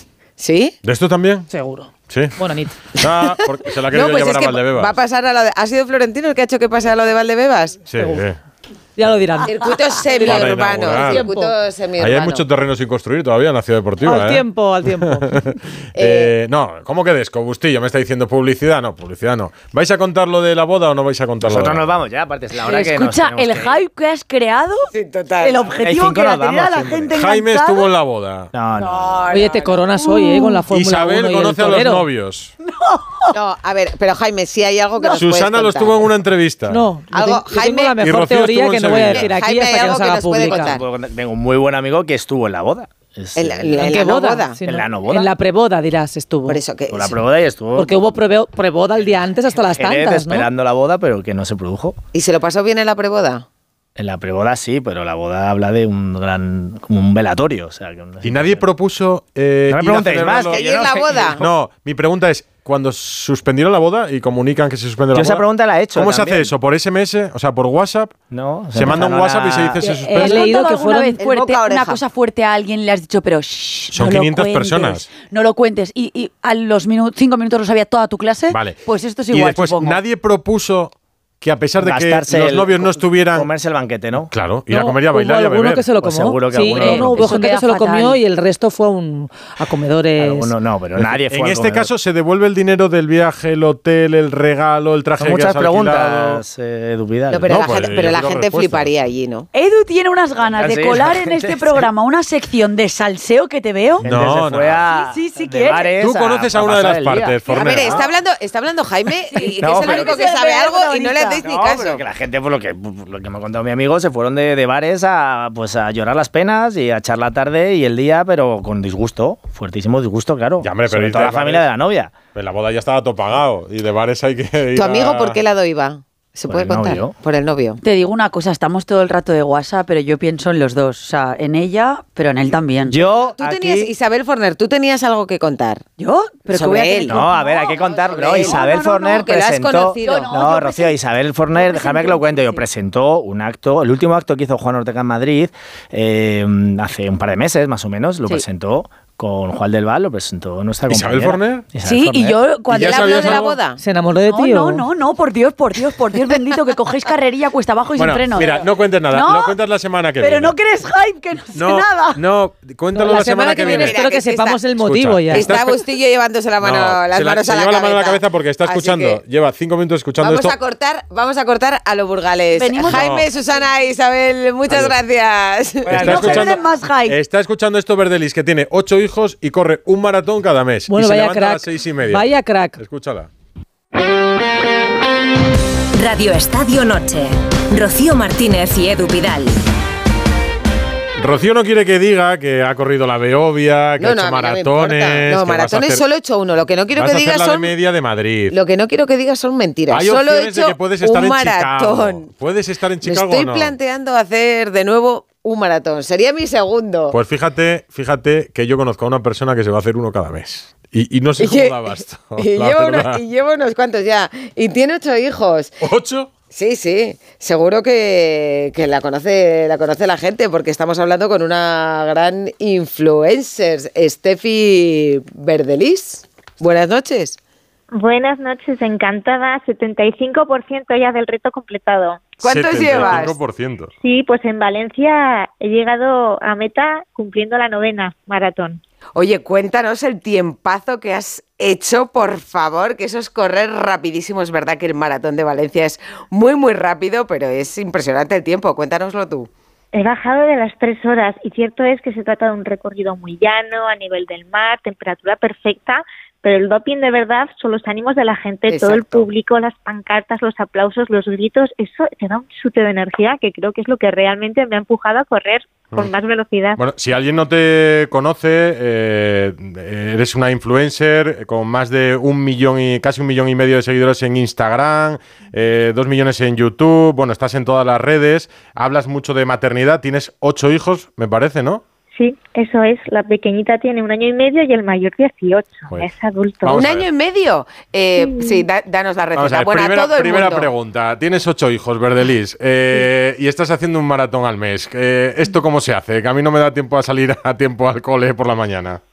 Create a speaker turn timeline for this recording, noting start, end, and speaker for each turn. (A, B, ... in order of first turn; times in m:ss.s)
0:00.4-0:00.7 A
0:00.8-0:01.4 B
0:01.5-0:02.7 C
0:02.1-0:02.4 B
0:02.9-0:04.9 B
0:03.9-0:07.8 A
0:07.9-0:08.4 B
0:09.0-0:11.5 C
0:09.5-0:12.4 A
0:10.2-0:11.3 B
0:12.0-0:21.8 B
0:14.0-0:15.5 C
0:15.9-0:16.3 A
0:21.4-0:23.8 D
0:22.6-0:24.9 E
0:24.9-0:25.7 A
0:25.4-0:27.8 E
0:25.8-0:27.1 D
0:27.1-0:28.5 B
0:28.5-0:29.2 D
0:28.8-0:29.8 A
0:29.3-0:32.0 C
0:30.7-0:32.5 B
0:32.8-0:33.3 E
0:33.3-0:36.0 A
0:35.2-0:36.8 B
0:36.7-0:40.8 C
0:37.1-0:37.9 A
0:38.0-0:39.3 B
0:39.1-0:40.8 A
0:40.4-0:44.0 D
0:43.4-0:44.6 A
0:43.8-0:46.6 C
0:44.6-0:45.3 D
0:46.4-0:47.2 A
0:46.9-0:48.0 D
0:47.8-0:50.5 C
0:49.7-0:52.0 D
0:52.1-0:53.4 A
0:54.0-0:58.6 D
0:58.2-1:05.4 B
0:59.7-1:01.3 D
1:00.5-1:01.4 A
1:05.1-1:06.5 D
1:05.9-1:08.1 B
1:08.3-1:09.8 D
1:08.7-1:10.5 B
1:09.9-1:20.0 E
1:10.1-1:11.2 C
1:11.2-1:12.0 A
1:13.9-1:15.1 B
1:18.5-1:18.8 B
1:19.3-1:23.5 B
1:21.8-1:24.3 D
1:24.3-1:25.8 B
1:24.7-1:30.5 C
1:26.0-1:27.4 D
1:26.7-1:28.2 E
1:30.2-1:31.9 D
1:31.0-1:36.4 B
1:35.2-1:37.5 D
1:37.3-1:39.5 A
1:37.5-1:38.9 B
1:39.5-1:44.1 E
1:40.6-1:41.8 D
1:44.0-1:48.0 D
1:44.0-1:44.9 B
1:44.8-1:46.0 E
1:46.0-1:48.0 B
1:47.5-1:52.0 A
1:49.3-1:51.4 E
1:49.6-1:50.2 D
1:51.4-2:02.1 D
2:00.6-2:01.6 B
2:02.3-2:05.4 B
2:04.7-2:07.8 A
2:06.5-2:07.1 D
2:07.8-2:13.0 E
2:12.8-2:13.9 D
2:13.3-2:15.8 A
2:16.0-2:19.2 E
2:16.5-2:17.2 A
2:17.1-2:32.4 D
2:18.0-2:20.3 A
2:20.0-2:20.9 E
2:21.5-2:22.6 E
2:30.9-2:31.6 B
2:31.8-2:33.6 E
2:32.7-2:33.8 A
2:32.7-2:33.4 B
2:33.8-2:34.8 C
2:34.3-2:39.6 E
2:38.0-2:40.5 B
2:40.2-2:42.2 E
2:41.5-2:44.0 B
2:42.9-2:45.6 C
2:43.4-2:44.6 A
2:44.8-2:45.7 B
2:45.3-2:49.2 A
2:46.6-2:50.5 B
2:50.2-2:56.2 A
2:52.6-2:53.1 E
2:52.9-2:53.3 B
2:54.7-2:54.9 B
2:55.9-2:56.6 D
2:55.9-3:02.2 B
2:55.9-2:57.2 E
3:00.9-3:02.8 C
3:02.8-3:03.3 B
3:06.0-3:09.6 F
3:11.2-3:16.0 B
3:14.0-3:17.7 A
3:16.9-3:18.5 B
3:18.5-3:22.3 A
3:19.9-3:23.7 B
3:23.0-3:27.1 A
3:27.1-3:33.2 B
3:31.4-3:35.7 A
3:35.8-3:36.3 B
3:36.5-3:47.4 A
3:47.9-3:52.3 G
3:52.4-3:53.4 A
3:52.4-3:53.9 B
3:54.0-3:58.8 G
3:59.1-4:09.5 A
4:09.9-4:26.8 G
4:18.7-4:19.3 A
4:26.8-4:41.8 B
4:42.1-4:46.7 G
4:46.6-4:47.1 B
4:46.7-4:50.7 A
4:48.2-4:48.6 G
4:49.4-4:59.0 B